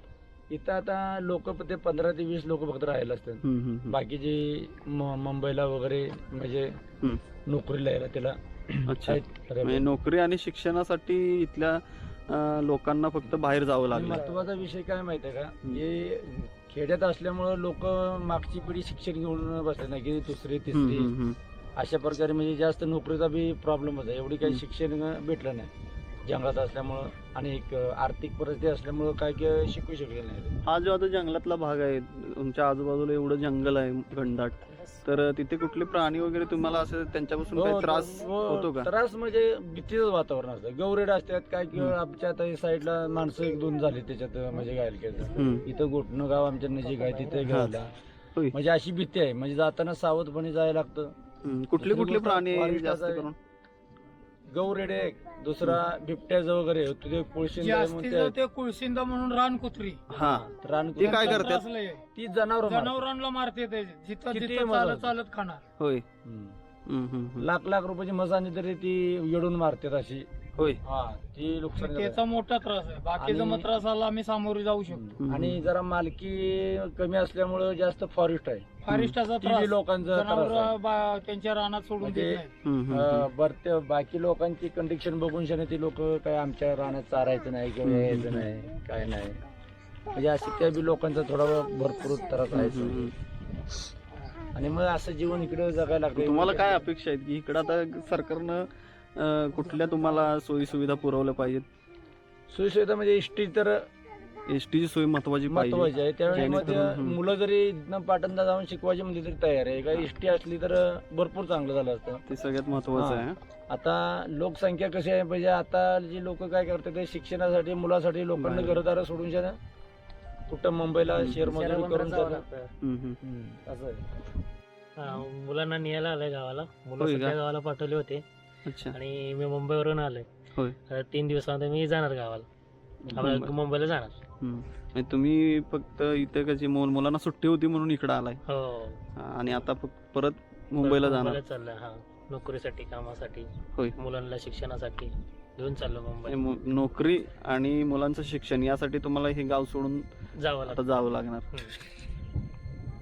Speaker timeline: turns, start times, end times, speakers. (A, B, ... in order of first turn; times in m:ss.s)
0:00.5-0:06.8 A
0:03.4-0:04.0 B
0:07.4-0:09.9 A
0:08.9-0:14.2 B
0:13.9-0:21.1 A
0:20.7-0:21.4 B
0:21.8-0:25.7 A
0:26.2-0:30.5 A
0:30.6-0:38.9 B
0:37.5-0:47.9 A
0:45.4-0:45.6 B
0:47.5-0:47.8 B
0:48.5-0:51.1 A
0:51.4-0:53.3 B
0:51.8-0:53.3 A
0:54.5-0:58.3 A
0:57.6-1:00.0 C
1:00.1-1:01.6 B
1:00.2-1:01.5 A
1:01.0-1:02.0 C
1:02.2-1:03.0 A
1:02.6-1:05.6 C
1:04.3-1:05.1 A
1:05.8-1:06.0 B
1:06.2-1:06.6 A
1:06.8-1:07.5 B
1:07.4-1:10.3 A
1:10.8-1:12.2 A
1:11.8-1:15.1 C
1:13.2-1:13.7 A
1:14.9-1:18.7 A
1:15.2-1:15.6 B
1:18.8-1:22.5 C
1:18.9-1:19.2 B
1:19.4-1:20.8 A
1:22.0-1:29.4 A
1:22.6-1:23.3 B
1:27.8-1:28.5 B
1:30.1-1:33.1 A
1:32.5-1:33.1 B
1:34.5-1:36.8 A
1:36.1-1:41.6 B
1:42.5-1:43.8 A
1:44.5-1:47.2 B
1:45.4-1:52.2 A
1:52.3-1:53.4 B
1:52.9-1:59.6 A
1:58.4-1:58.8 B
2:00.5-2:02.4 A
2:01.2-2:01.5 B
2:01.5-2:02.7 D
2:02.8-2:03.2 B
2:03.2-2:04.0 A
2:05.0-2:08.2 D
2:07.0-2:07.4 B
2:08.7-2:08.9 B
2:08.9-2:10.3 D
2:10.9-2:12.5 D
2:13.0-2:13.5 B
2:13.2-2:14.2 D
2:14.4-2:18.4 B
2:18.5-2:19.0 D
2:19.2-2:21.4 B
2:20.8-2:26.4 D
2:26.2-2:30.1 B
2:30.4-2:30.8 D
2:30.7-2:31.5 B